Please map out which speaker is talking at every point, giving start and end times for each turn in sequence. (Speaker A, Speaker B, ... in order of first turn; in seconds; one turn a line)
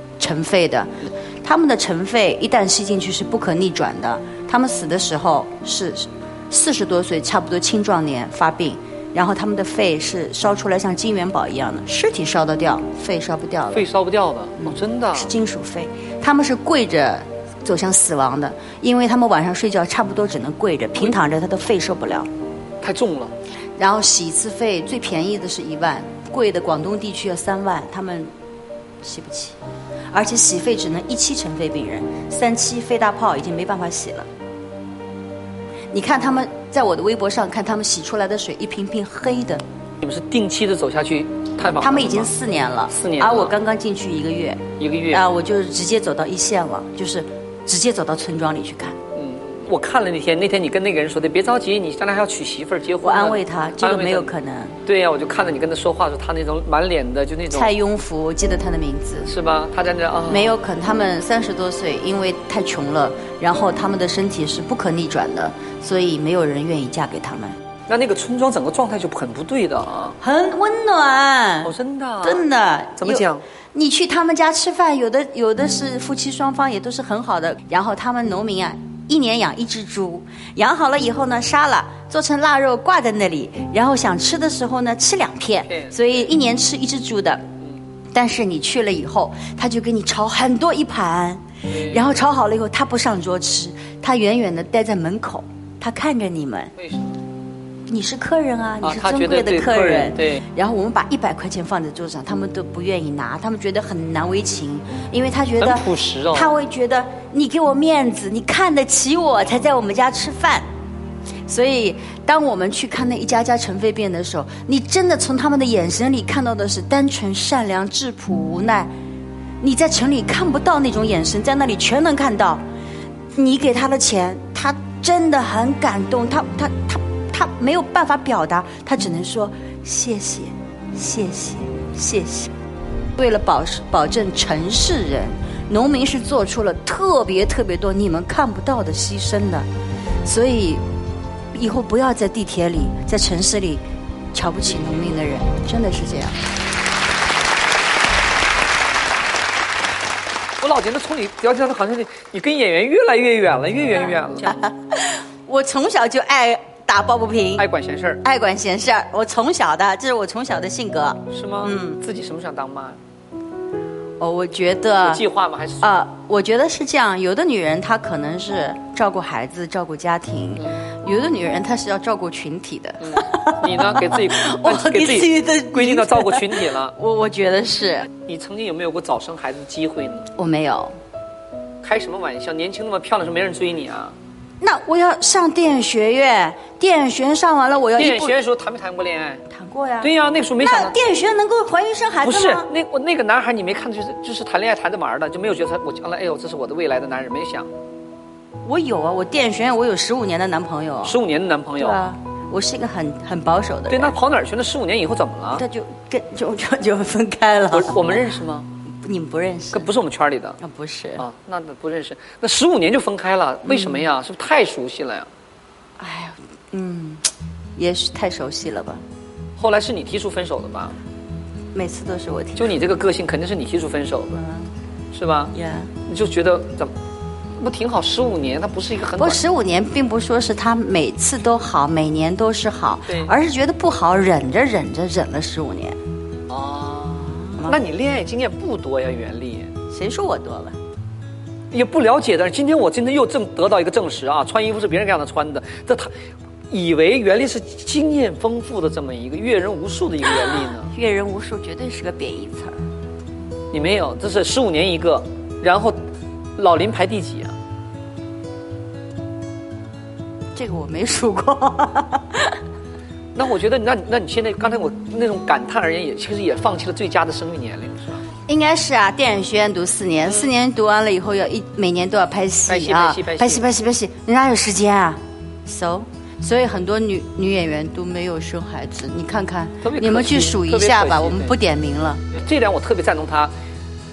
Speaker A: 0.2-13.9
Speaker B: 13.7-15.3
Speaker A: 14.6-22.3
Speaker B: 22.8-23.3
Speaker A: 23.8-28.3
Speaker A: 29.0-29.6
Speaker A: 30.1-34.3
Speaker A: 35.9-39.6
Speaker B: 40.0-42.3
Speaker A: 41.6-49.0
Speaker B: 42.9-43.5
Speaker B: 44.8-45.3
Speaker B: 49.1-54.3
Speaker A: 53.0-54.8
Speaker B: 54.9-57.7
Speaker A: 57.5-59.3
Speaker B: 59.2-60.6
Speaker A: 60.3-67.5
Speaker B: 67.9-70.2
Speaker A: 70.2-87.4
Speaker B: 71.6-72.5
Speaker B: 73.0-73.4
Speaker B: 85.7-86.3
Speaker A: 88.1-96.7
Speaker B: 91.7-92.2
Speaker B: 96.8-97.1
Speaker A: 97.9-110.7
Speaker B: 98.8-100.4
Speaker B: 105.6-106.5
Speaker A: 111.5-118.9
Speaker A: 119.6-122.6
Speaker A: 123.4-132.5
Speaker A: 133.2-139.7
Speaker A: 140.2-140.8
Speaker A: 141.5-143.8
Speaker A: 144.3-146.4
Speaker B: 150.6-154.7
Speaker A: 154.5-157.7
Speaker B: 157.6-158.2
Speaker A: 158.2-162.0
Speaker B: 161.3-163.0
Speaker A: 164.2-165.2
Speaker B: 165.0-165.9
Speaker A: 165.8-178.1
Speaker B: 173.0-177.0
Speaker B: 178.2-180.3
Speaker A: 180.4-180.9
Speaker B: 181.8-184.2
Speaker A: 184.6-188.4
Speaker B: 188.0-189.4
Speaker A: 189.5-192.7
Speaker B: 190.0-191.0
Speaker B: 192.2-197.7
Speaker A: 198.7-201.2
Speaker B: 201.0-202.0
Speaker A: 201.8-204.2
Speaker B: 203.9-205.6
Speaker A: 205.6-208.2
Speaker B: 207.7-208.7
Speaker A: 209.0-209.9
Speaker B: 209.7-210.6
Speaker A: 210.6-211.2
Speaker B: 211.2-215.3
Speaker A: 213.7-214.1
Speaker A: 216.0-217.2
Speaker A: 217.8-219.0
Speaker B: 219.6-221.0
Speaker A: 221.7-222.6
Speaker B: 222.6-224.4
Speaker A: 224.3-224.7
Speaker B: 225.1-226.9
Speaker A: 225.6-225.9
Speaker B: 227.6-229.4
Speaker A: 229.2-236.0
Speaker B: 236.5-239.7
Speaker A: 237.4-237.8
Speaker A: 239.9-240.8
Speaker B: 241.7-246.1
Speaker B: 246.7-250.9
Speaker A: 250.5-252.8
Speaker B: 253.7-256.0
Speaker B: 256.6-257.6
Speaker A: 260.6-262.6
Speaker B: 263.4-268.2
Speaker A: 268.5-282.2
Speaker B: 272.7-273.6
Speaker B: 279.8-281.6
Speaker B: 282.3-283.5